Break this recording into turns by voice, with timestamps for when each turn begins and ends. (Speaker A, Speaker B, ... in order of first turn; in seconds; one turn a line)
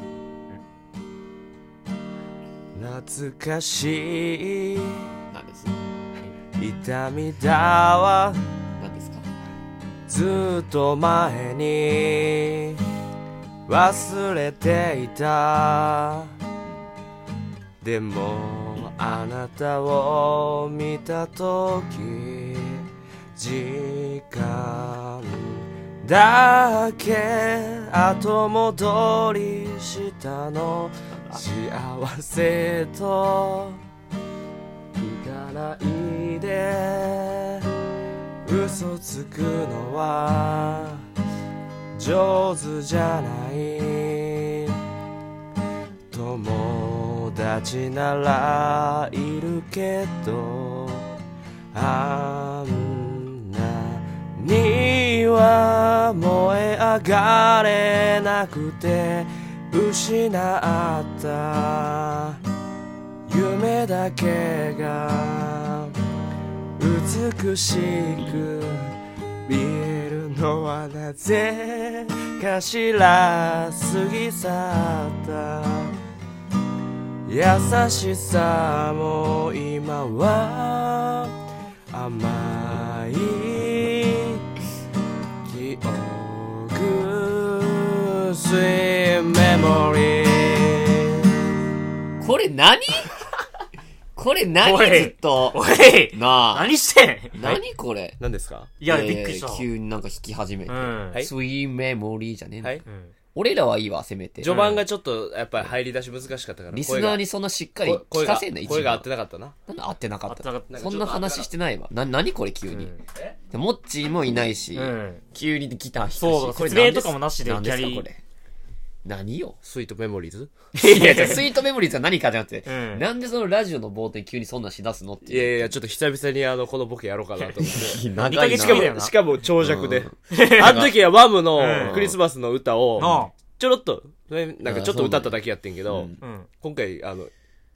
Speaker A: 2.8-5.0
Speaker B: 5.3-5.7
Speaker A: 6.6-8.4
Speaker B: 8.8-9.3
Speaker A: 10.1-12.8
Speaker A: 13.7-16.3
Speaker A: 17.8-33.8
Speaker B: 31.1-31.4
Speaker A: 35.0-37.7
Speaker A: 38.5-41.0
Speaker A: 42.0-44.8
Speaker A: 46.1-51.1
Speaker A: 51.7-62.4
Speaker A: 63.3-66.0
Speaker A: 66.8-68.9
Speaker A: 69.5-75.9
Speaker A: 77.3-81.3
Speaker A: 81.9-84.4
Speaker A: 85.5-91.2
Speaker B: 92.2-93.1
Speaker B: 94.2-95.6
Speaker C: 94.6-97.6
Speaker B: 96.1-96.7
Speaker B: 97.3-98.2
Speaker A: 98.2-98.7
Speaker C: 98.8-99.7
Speaker B: 98.8-102.8
Speaker C: 100.7-101.2
Speaker C: 102.9-103.1
Speaker B: 103.3-104.7
Speaker A: 104.4-107.2
Speaker C: 104.5-104.8
Speaker B: 106.7-109.0
Speaker A: 107.8-109.5
Speaker B: 109.7-112.9
Speaker C: 110.3-110.7
Speaker A: 110.7-111.5
Speaker C: 112.7-113.0
Speaker B: 113.5-118.2
Speaker C: 114.8-115.2
Speaker C: 116.2-118.0
Speaker B: 119.0-119.6
Speaker A: 119.6-120.6
Speaker B: 120.8-125.7
Speaker C: 120.8-121.5
Speaker C: 122.7-123.0
Speaker A: 125.3-137.3
Speaker B: 127.6-128.9
Speaker C: 128.2-129.1
Speaker B: 129.6-130.2
Speaker C: 130.3-130.9
Speaker C: 131.6-132.0
Speaker B: 131.6-132.2
Speaker C: 133.0-133.3
Speaker B: 134.6-135.4
Speaker B: 135.9-136.2
Speaker C: 136.2-136.5